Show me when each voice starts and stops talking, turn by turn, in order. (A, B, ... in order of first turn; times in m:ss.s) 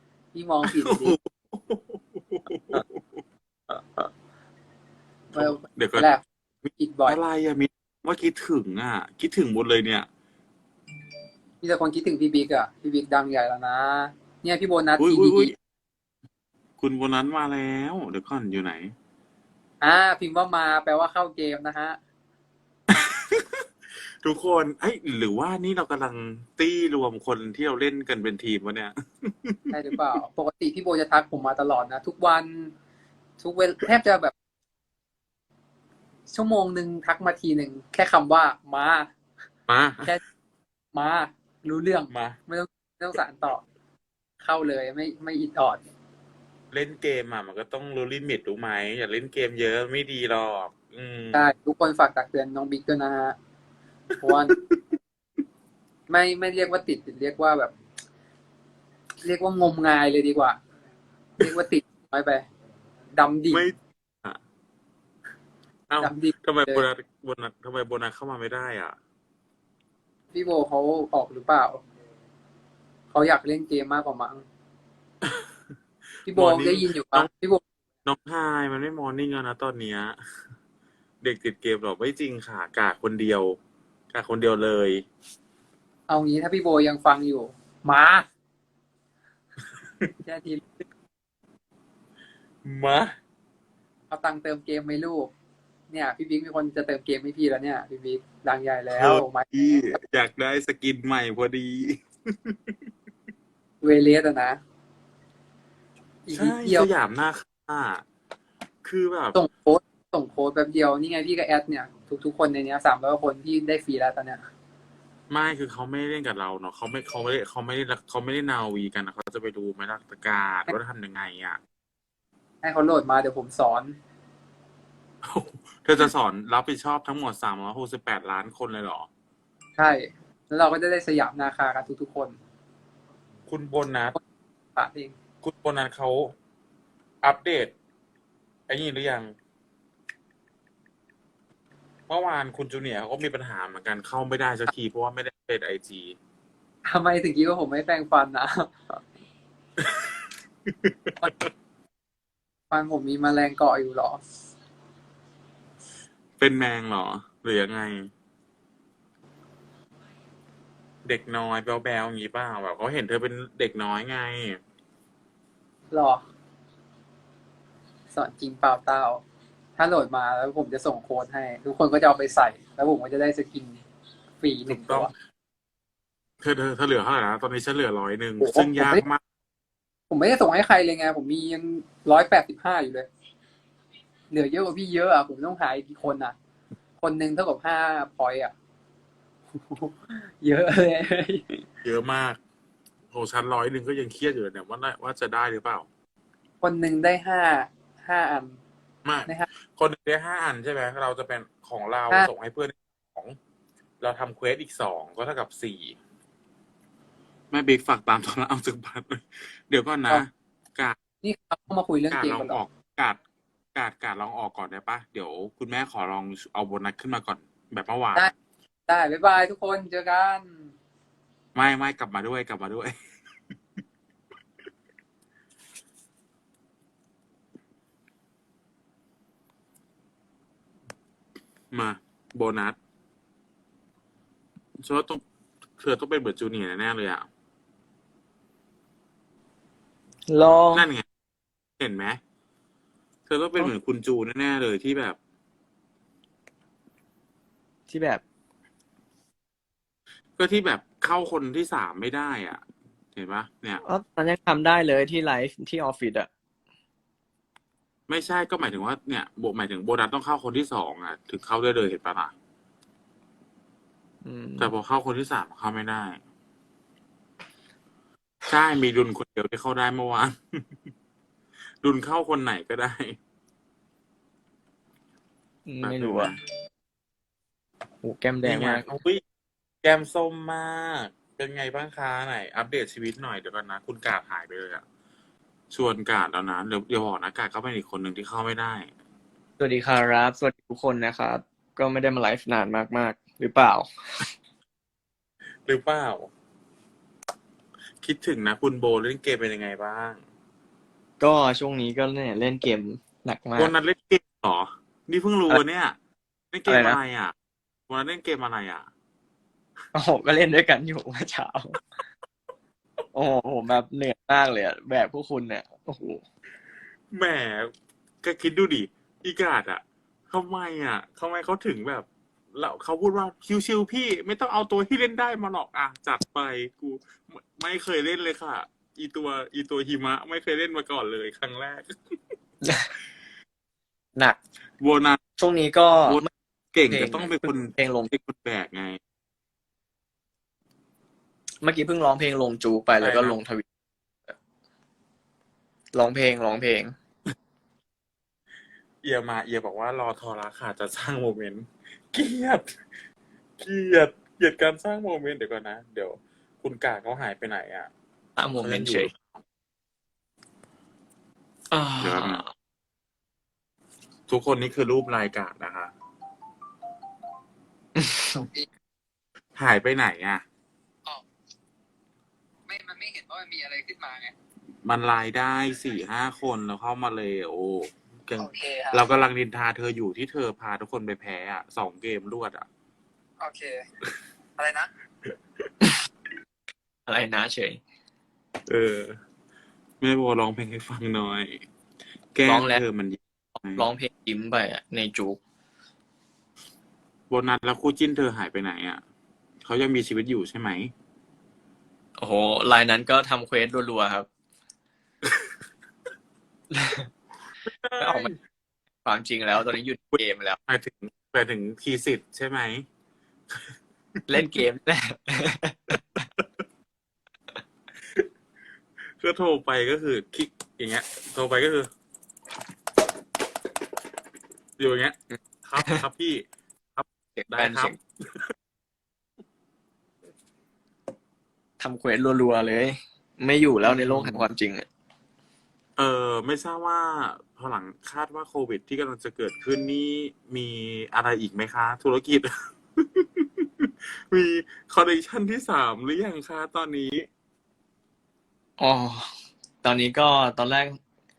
0:00.3-0:01.2 A
0:00.6-0:03.0 B
0:05.3-0:06.1 B
0:05.4-0:06.2 A
0:06.6-0:10.1 B
0:06.8-0:07.2 A
0:11.6-0:15.5 A
0:15.0-0:15.5 B
0:16.8-0:18.9 B
0:19.8-0:22.0 A
0:23.0-0:23.6 B
0:24.2-0:29.7 B
0:29.7-0:32.7 A
0:33.4-0:34.3 A
0:36.3-0:39.1 A
0:39.7-0:40.1 B
0:40.9-0:43.6 A
0:42.1-0:42.4 B
0:44.4-0:45.8 A
0:46.7-0:51.5 B
0:51.3-0:53.4 A
0:54.2-0:54.6 A
0:54.3-0:54.8 B
0:56.1-0:57.7 A
0:59.2-1:00.6 A
1:01.4-1:02.4 A
1:03.1-1:03.7 A
1:03.5-1:04.4 B
1:05.9-1:09.0 B
1:06.0-1:06.9 A
1:10.3-1:11.8 A
1:13.1-1:14.5 A
1:16.3-1:17.3 B
1:16.3-1:17.6 A
1:18.0-1:20.2 B
1:21.2-1:23.6 B
1:24.1-1:25.0 B
1:26.1-1:28.3 A
1:30.2-1:30.7 A
1:32.6-1:33.1 B
1:34.1-1:35.3 A
1:35.9-1:39.8 A
1:38.9-1:42.7 B
1:43.8-1:44.6 A
1:46.3-1:46.9 A
1:46.3-1:48.0 B
1:48.8-1:49.4 B
1:49.4-1:54.4 A
1:55.3-2:01.6 B
2:02.6-2:04.0 A
2:05.2-2:09.1 B
2:09.8-2:12.4 A
2:13.5-2:14.2 B
2:14.8-2:15.1 A
2:15.4-2:16.3 B
2:17.2-2:17.7 B
2:18.7-2:19.3 B
2:22.1-2:26.2 B
2:26.9-2:29.0 A
2:30.7-2:31.3 B
2:32.7-2:34.2 A
2:36.4-2:38.1 B
2:41.0-2:44.6 B
2:45.9-2:46.2 A
2:48.1-2:49.2 A
2:49.8-2:53.8 A
2:54.4-2:55.1 A
2:54.7-2:55.1 B
2:56.4-2:59.2 B
2:58.4-2:59.0 A
3:00.1-3:03.1 A
3:04.3-3:06.4 A
3:07.0-3:08.5 A
3:09.6-3:11.6 A
3:11.8-3:12.4 B
3:13.1-3:15.9 B
3:16.6-3:18.6 A
3:19.0-3:23.4 B
3:24.0-3:26.0 B
3:27.5-3:31.0 B
3:31.2-3:32.6 A
3:32.1-3:33.2 B
3:33.8-3:38.3 B
3:38.9-3:40.7 A
3:41.6-3:43.0 B
3:51.7-3:52.8 B
3:54.8-3:55.2 B
3:55.8-3:57.3 B
4:00.3-4:00.9 C
4:00.7-4:01.0 B
4:01.8-4:02.2 B
4:03.3-4:05.2 B
4:07.9-4:08.2 C
4:10.4-4:12.6 B
4:13.2-4:13.8 B
4:13.8-4:16.3 C
4:18.1-4:22.3 B
4:24.2-4:24.7 C
4:24.6-4:26.2 B
4:28.5-4:30.4 B
4:31.8-4:33.2 B
4:35.7-4:36.4 C
4:35.8-4:36.4 B
4:38.0-4:38.9 C
4:38.4-4:39.2 B
4:39.8-4:44.8 B
4:45.7-4:48.9 B
4:49.6-4:54.3 C
4:55.6-4:56.3 B
4:58.0-5:00.2 B
5:01.2-5:03.7 C
5:03.6-5:06.0 B
5:06.5-5:07.3 B
5:06.7-5:07.0 C
5:07.9-5:08.9 B
5:09.9-5:11.8 C
5:13.1-5:16.2 C
5:17.1-5:17.7 B
5:18.2-5:32.0 B
5:32.6-5:32.9 C
5:34.8-5:35.2 B
5:35.4-5:36.3 C
5:36.1-5:39.0 B
5:36.9-5:38.1 C
5:41.6-5:43.7 C
5:43.0-5:43.4 B
5:45.9-5:47.0 C
5:49.0-5:52.8 B
5:53.6-5:57.9 B
5:58.4-5:59.1 C
5:58.6-5:59.4 B
6:01.7-6:02.5 C
6:02.0-6:02.4 B
6:04.3-6:05.9 B
6:08.0-6:08.5 C
6:09.6-6:10.4 B
6:12.7-6:14.3 A
6:14.8-6:22.7 B
6:18.4-6:19.0 A
6:23.4-6:23.9 A
6:24.6-6:24.9 A
6:27.1-6:27.8 C
6:28.7-6:29.2 B
6:30.0-6:31.6 B
6:32.3-6:33.9 B
6:32.5-6:32.8 C
6:33.6-6:35.4 C
6:37.3-6:39.0 B
6:39.6-6:40.9 B
6:42.2-6:44.3 C
6:46.7-6:47.1 C
6:47.6-6:48.4 B
6:48.0-6:48.3 C
6:49.0-6:50.6 C
6:50.7-6:52.9 B
6:54.3-6:56.2 C
6:59.2-7:01.9 B
7:04.8-7:06.4 B
7:07.0-7:08.4 B
7:07.4-7:08.0 C
7:11.8-7:14.9 C
7:13.8-7:14.5 B
7:16.0-7:27.3 B
7:28.8-7:31.0 C